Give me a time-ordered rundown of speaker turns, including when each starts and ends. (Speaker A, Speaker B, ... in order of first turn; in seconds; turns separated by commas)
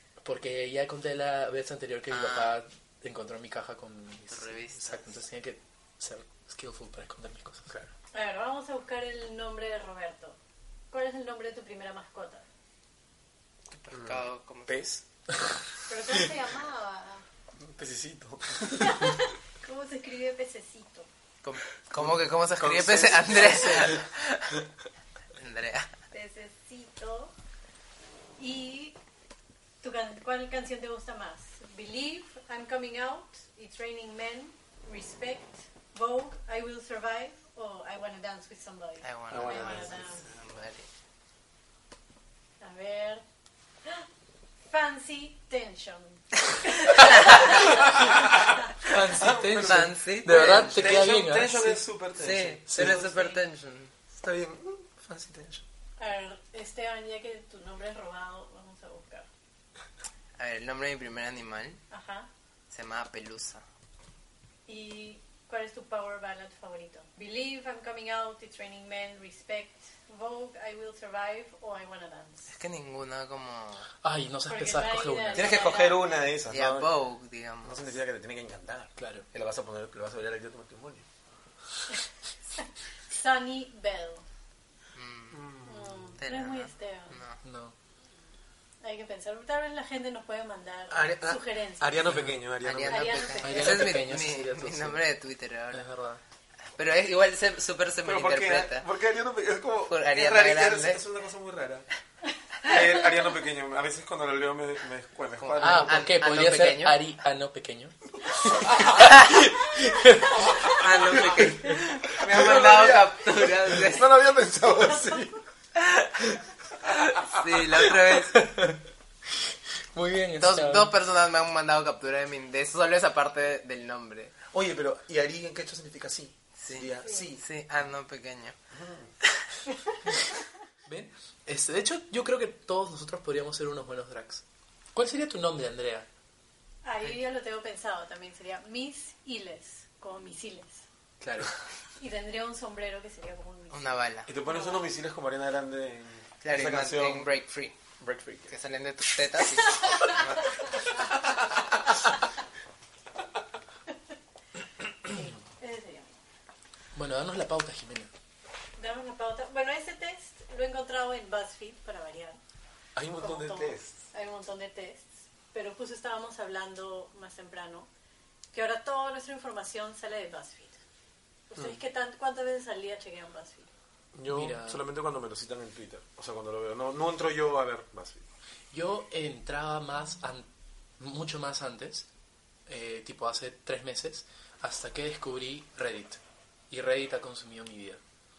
Speaker A: 0.2-7.7, Speaker B: 2.1-2.6, Speaker B: 4.3-5.1, Speaker C: 8.1-10.4, Speaker C: 10.9-12.4, Speaker B: 13.7-14.8, Speaker D: 13.9-15.0, Speaker C: 15.9-17.2, Speaker D: 17.6-19.2, Speaker C: 18.8-21.1, Speaker B: 21.4-24.6, Speaker D: 21.9-24.0, Speaker B: 25.4-25.9, Speaker C: 26.1-27.3, Speaker C: 28.4-29.0, Speaker C: 29.8-40.3, Speaker B: 39.0-40.9, Speaker D: 39.3-40.2, Speaker C: 42.6-43.2, Speaker C: 44.7-48.0, Speaker B: 47.2-47.5, Speaker A: 47.9-48.1, Speaker A: 48.8-51.8, Speaker D: 49.0-53.3, Speaker B: 49.4-51.0, Speaker B: 52.2-53.9, Speaker A: 52.7-53.0, Speaker D: 54.1-55.6, Speaker C: 56.0-59.3, Speaker B: 60.4-61.8, Speaker C: 61.9-62.3, Speaker B: 62.7-63.6, Speaker C: 64.7-72.5, Speaker B: 72.5-73.9, Speaker A: 74.0-75.6, Speaker C: 74.5-76.1, Speaker D: 75.3-76.9, Speaker B: 76.5-77.9, Speaker D: 77.6-81.0, Speaker A: 79.0-79.2, Speaker C: 82.6-84.2, Speaker B: 84.9-85.4, Speaker D: 85.3-86.1, Speaker C: 85.6-87.2, Speaker B: 86.2-87.4, Speaker A: 87.4-87.8, Speaker C: 88.8-91.9, Speaker D: 90.9-94.0, Speaker A: 92.0-92.4, Speaker B: 92.6-95.9, Speaker C: 92.8-93.7, Speaker A: 93.4-95.0, Speaker A: 95.7-96.2, Speaker B: 96.8-98.9, Speaker D: 98.0-101.9, Speaker B: 99.9-101.0, Speaker D: 102.6-106.1, Speaker B: 105.4-107.0, Speaker A: 105.6-110.7, Speaker D: 108.3-109.2, Speaker B: 109.0-109.3, Speaker D: 110.4-115.4, Speaker B: 110.6-114.1, Speaker B: 115.8-116.2, Speaker B: 116.8-118.4, Speaker A: 118.3-120.9, Speaker B: 120.4-124.3, Speaker D: 124.5-127.4, Speaker B: 126.6-128.6, Speaker D: 128.7-129.1, Speaker A: 130.8-134.4, Speaker A: 134.9-136.1, Speaker C: 136.8-140.8, Speaker A: 141.2-141.5, Speaker C: 142.0-144.8, Speaker B: 143.7-144.3, Speaker D: 144.3-147.3, Speaker B: 146.4-147.8, Speaker D: 148.0-148.5, Speaker B: 148.5-150.5, Speaker D: 150.1-150.8, Speaker C: 155.0-156.2, Speaker A: 156.9-158.1, Speaker C: 158.8-162.4, Speaker D: 162.9-163.9, Speaker C: 163.2-167.9, Speaker C: 168.5-170.8, Speaker C: 171.5-173.7, Speaker D: 174.1-178.2, Speaker A: 174.3-174.8, Speaker A: 178.7-180.5, Speaker A: 181.0-182.1, Speaker A: 182.7-188.0